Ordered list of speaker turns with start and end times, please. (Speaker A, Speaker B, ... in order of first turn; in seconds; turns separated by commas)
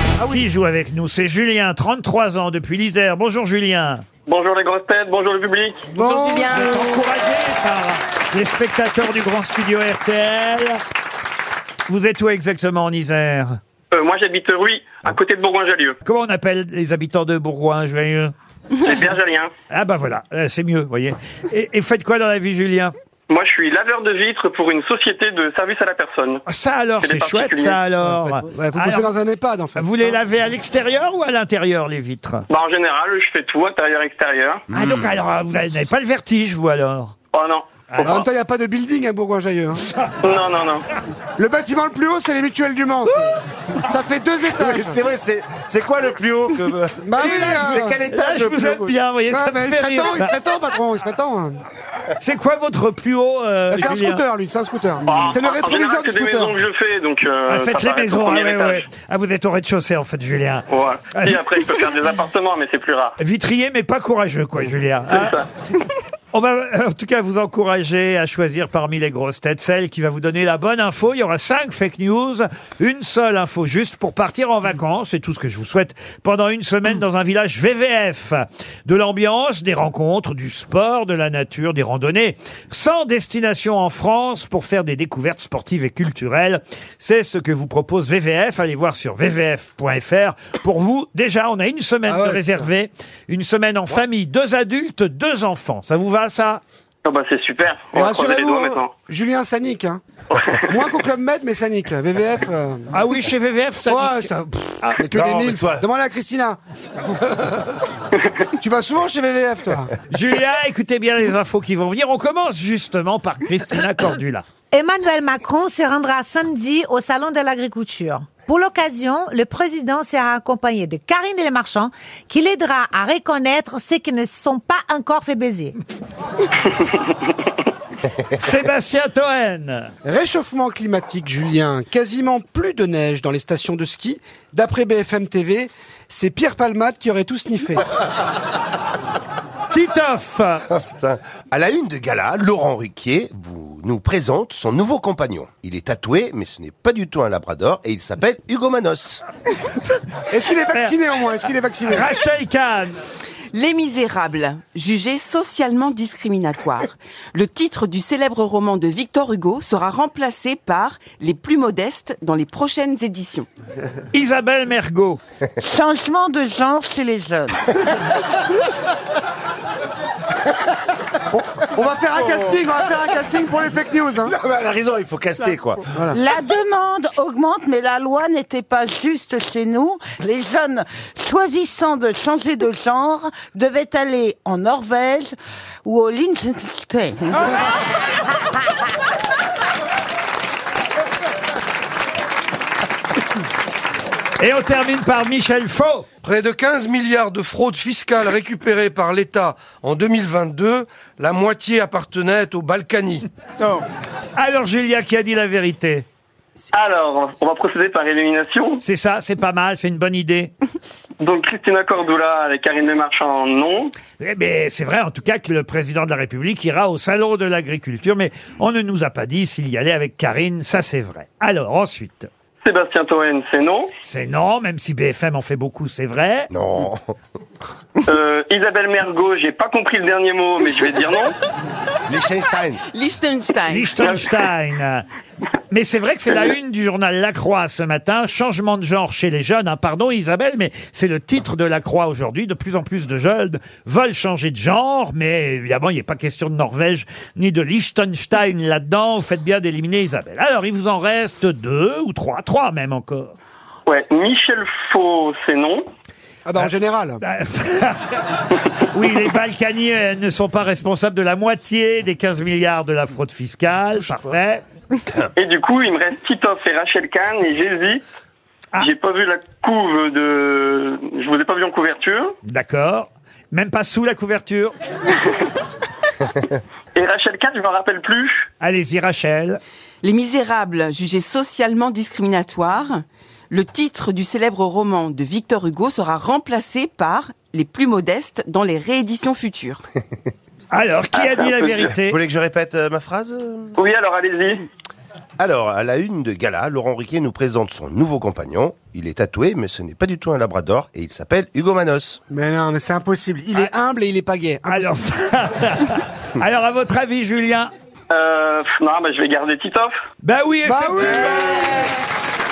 Speaker A: 0.2-4.0, Speaker B: 4.3-5.9, Speaker C: 5.9-7.0, Speaker D: 6.0-6.8, Speaker A: 6.5-10.8, Speaker A: 11.9-13.5, Speaker B: 13.9-15.9, Speaker A: 16.0-18.3, Speaker B: 18.8-19.5, Speaker A: 19.7-22.9, Speaker B: 23.3-26.4, Speaker A: 26.4-29.1, Speaker B: 27.0-27.8, Speaker C: 28.5-30.2, Speaker A: 29.8-32.4, Speaker B: 32.5-34.6, Speaker A: 34.7-37.1, Speaker E: 34.8-35.1, Speaker B: 37.3-38.2, Speaker A: 37.9-38.2, Speaker C: 38.0-39.8, Speaker B: 40.2-40.9, Speaker C: 41.4-45.0, Speaker E: 44.5-49.0, Speaker C: 47.0-48.0, Speaker A: 47.2-50.3, Speaker C: 49.3-51.6, Speaker A: 52.2-54.2, Speaker C: 53.7-56.6, Speaker B: 55.1-58.9, Speaker A: 57.5-61.4, Speaker B: 60.7-63.1, Speaker A: 63.2-65.3, Speaker B: 65.1-65.5, Speaker A: 66.3-96.6, Speaker C: 92.0-92.7, Speaker B: 97.0-98.9, Speaker C: 97.9-100.0, Speaker B: 100.3-100.8, Speaker C: 100.7-102.9, Speaker A: 102.9-104.3, Speaker C: 103.8-106.6, Speaker E: 105.0-105.8, Speaker C: 108.6-109.9, Speaker A: 110.1-114.5, Speaker F: 114.7-125.8, Speaker A: 128.3-129.9, Speaker C: 130.0-137.8, Speaker A: 139.7-140.6, Speaker E: 140.7-149.2, Speaker C: 150.3-152.1, Speaker A: 150.7-152.9, Speaker D: 153.5-163.5, Speaker A: 164.1-165.2, Speaker G: 165.6-167.7, Speaker C: 171.4-174.3, Speaker E: 174.3-175.8, Speaker C: 175.9-176.2, Speaker G: 176.1-187.6, Speaker A: 194.4-196.1, Speaker H: 196.2-203.2, Speaker A: 204.3-206.1, Speaker B: 206.7-208.8, Speaker A: 208.8-210.5, Speaker B: 211.2-213.9, Speaker A: 214.2-222.3, Speaker B: 222.6-223.9, Speaker A: 224.0-226.5, Speaker E: 226.5-227.1, Speaker B: 228.0-231.3, Speaker E: 232.1-232.8, Speaker D: 232.9-234.0, Speaker A: 233.7-235.1, Speaker B: 234.0-234.3, Speaker A: 235.7-253.3, Speaker B: 253.9-255.9, Speaker C: 256.4-257.2, Speaker A: 256.6-258.3, Speaker A: 258.8-264.6, Speaker B: 265.4-268.0, Speaker B: 268.8-272.3, Speaker A: 272.4-274.7, Speaker B: 276.9-278.4, Speaker A: 278.6-279.6, Speaker D: 280.0-289.8, Speaker A: 290.7-292.2, Speaker B: 291.1-291.9, Speaker E: 292.0-293.7, Speaker B: 293.8-294.6, Speaker E: 295.4-302.2, Speaker C: 302.3-305.0, Speaker A: 304.7-307.7, Speaker B: 308.1-309.9, Speaker A: 310.2-311.9, Speaker C: 310.6-311.6